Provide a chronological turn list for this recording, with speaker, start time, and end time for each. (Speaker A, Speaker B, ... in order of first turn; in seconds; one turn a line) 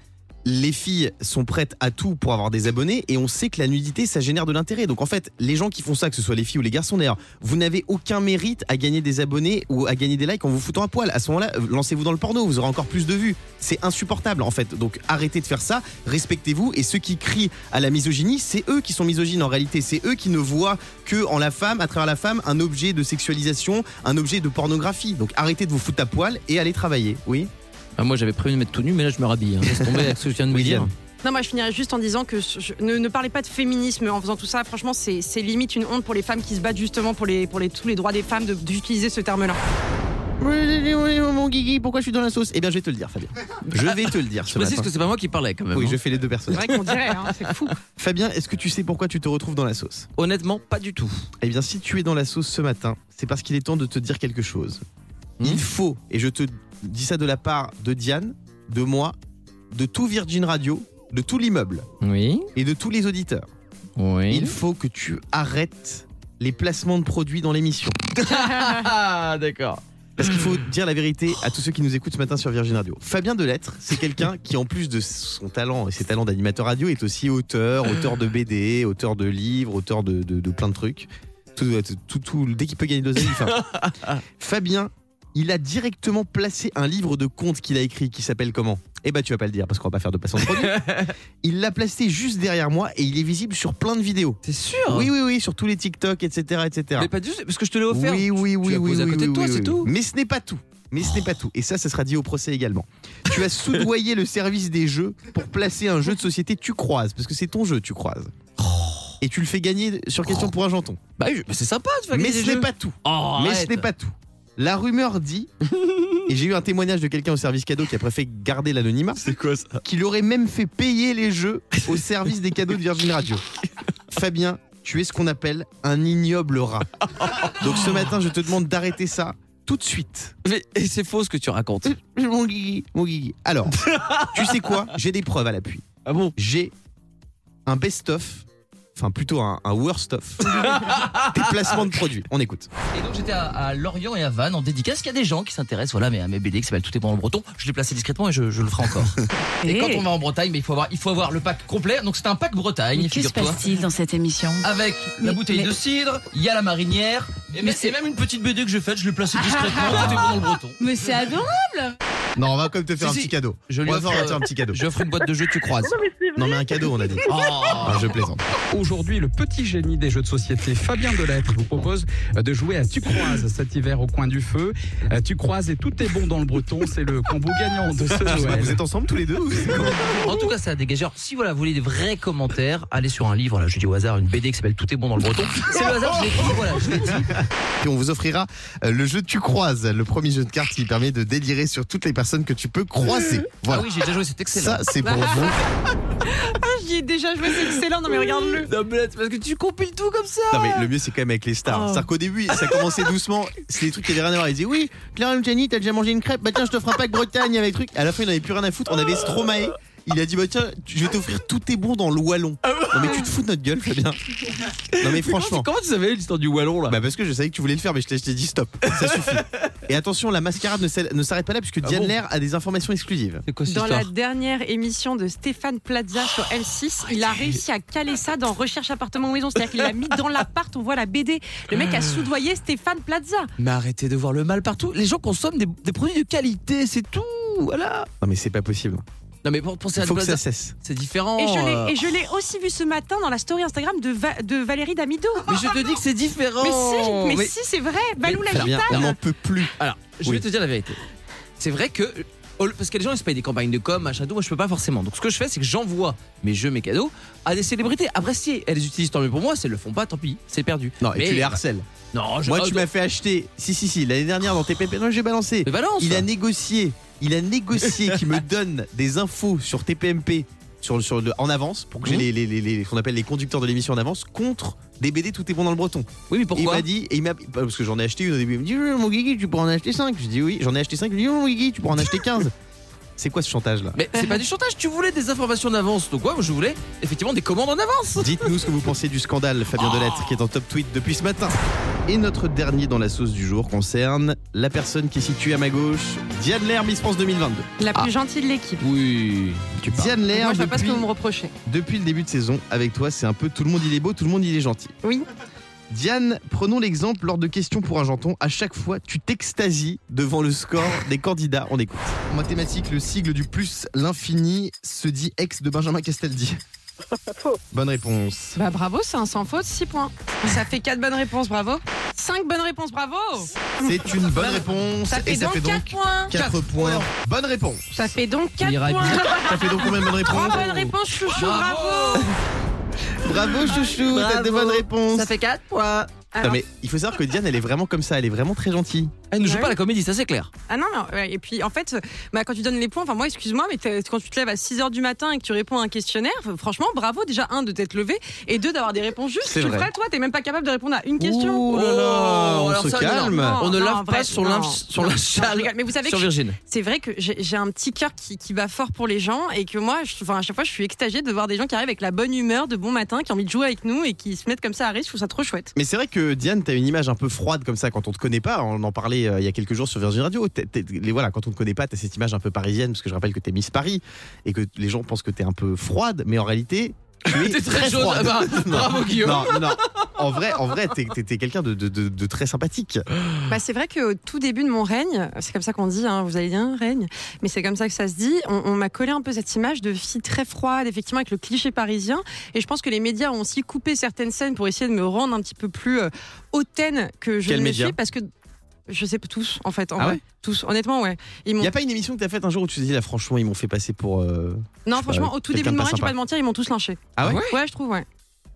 Speaker A: 0.5-27.5
Speaker B: 28.0-30.9
Speaker A: 29.6-30.9
Speaker C: 31.2-39.6
Speaker A: 40.4-44.9
Speaker B: 43.7-46.0
Speaker A: 45.7-46.8
Speaker C: 46.5-47.7
Speaker B: 46.6-47.1
Speaker A: 48.0-50.1
Speaker B: 50.2-51.2
Speaker A: 51.4-54.8
Speaker A: 55.4-59.1
Speaker A: 59.7-61.9
Speaker B: 62.0-62.5
Speaker A: 62.5-63.5
Speaker B: 64.0-64.6
Speaker A: 64.3-68.0
Speaker B: 68.2-69.8
Speaker A: 70.2-83.6
Speaker B: 83.2-84.2
Speaker A: 84.4-90.9
Speaker B: 90.4-91.2
Speaker A: 91.4-97.1
Speaker B: 94.4-95.1
Speaker B: 97.0-99.9
Speaker A: 97.9-108.3
Speaker B: 108.6-109.2
Speaker A: 109.2-111.0
Speaker B: 111.2-113.9
Speaker A: 112.1-115.5
Speaker A: 116.1-119.3
Speaker B: 119.2-119.8
Speaker A: 119.8-123.4
Speaker A: 124.1-126.9
Speaker B: 127.2-128.1
Speaker A: 127.5-130.3
Speaker B: 130.4-131.9
Speaker A: 131.8-135.8
Speaker B: 133.8-134.9
Speaker B: 136.1-136.3
Speaker A: 136.4-136.7
Speaker A: 137.7-142.7
Speaker B: 140.5-141.6
Speaker B: 142.9-153.7
Speaker D: 149.6-150.1
Speaker D: 153.0-155.8
Speaker B: 154.6-161.2
Speaker D: 157.6-157.9
Speaker D: 159.3-161.9
Speaker A: 162.4-164.8
Speaker B: 163.0-166.1
Speaker A: 166.3-168.4
Speaker B: 167.2-168.2
Speaker E: 168.7-178.8
Speaker A: 178.2-180.2
Speaker B: 179.9-187.4
Speaker A: 187.2-193.9
Speaker B: 193.1-195.0
Speaker A: 194.5-195.6
Speaker C: 195.0-195.6
Speaker C: 196.2-198.7
Speaker B: 198.1-200.9
Speaker A: 200.5-214.2
Speaker B: 201.7-203.1
Speaker B: 212.7-213.3
Speaker B: 214.8-217.0
Speaker A: 215.0-215.7
Speaker A: 216.9-223.4
Speaker B: 218.9-219.4
Speaker B: 221.8-222.2
Speaker B: 223.5-224.1
Speaker C: 223.7-233.5
Speaker B: 231.7-232.0
Speaker B: 233.6-238.1
Speaker A: 238.2-239.0
Speaker B: 239.4-242.0
Speaker A: 240.0-240.8
Speaker C: 241.4-245.6
Speaker B: 245.4-247.5
Speaker C: 246.6-249.1
Speaker B: 248.2-249.1
Speaker A: 248.5-249.7
Speaker B: 249.8-251.0
Speaker B: 251.6-261.6
Speaker A: 261.0-261.9
Speaker B: 262.1-262.9
Speaker A: 262.4-282.5
Speaker B: 265.7-266.3
Speaker B: 267.9-268.4
Speaker B: 276.3-276.9
Speaker A: 283.2-284.0
Speaker B: 283.9-288.5
Speaker A: 288.2-298.1
Speaker B: 289.8-290.4
Speaker C: 297.8-298.8
Speaker B: 298.8-300.1
Speaker A: 299.9-301.1
Speaker C: 300.3-301.5
Speaker A: 301.7-304.9
Speaker A: 305.9-316.6
Speaker A: 317.7-318.6
Speaker C: 318.6-326.3
Speaker A: 323.8-328.1
Speaker B: 326.3-327.1
Speaker C: 328.0-332.3
Speaker B: 328.6-329.5
Speaker A: 329.2-330.9
Speaker B: 331.4-332.3
Speaker A: 333.2-335.3
Speaker B: 333.3-336.1
Speaker C: 336.3-336.6
Speaker A: 336.4-339.1
Speaker B: 339.3-340.5
Speaker C: 339.4-339.8
Speaker C: 340.7-351.7
Speaker A: 349.4-349.9
Speaker A: 351.2-353.6
Speaker B: 351.7-356.6
Speaker C: 353.1-365.7
Speaker A: 365.8-383.1
Speaker B: 377.3-380.6
Speaker C: 383.5-398.3
Speaker A: 397.5-398.0
Speaker C: 398.9-401.7
Speaker A: 401.6-406.1
Speaker C: 404.9-408.1
Speaker A: 407.2-407.4
Speaker B: 407.2-407.6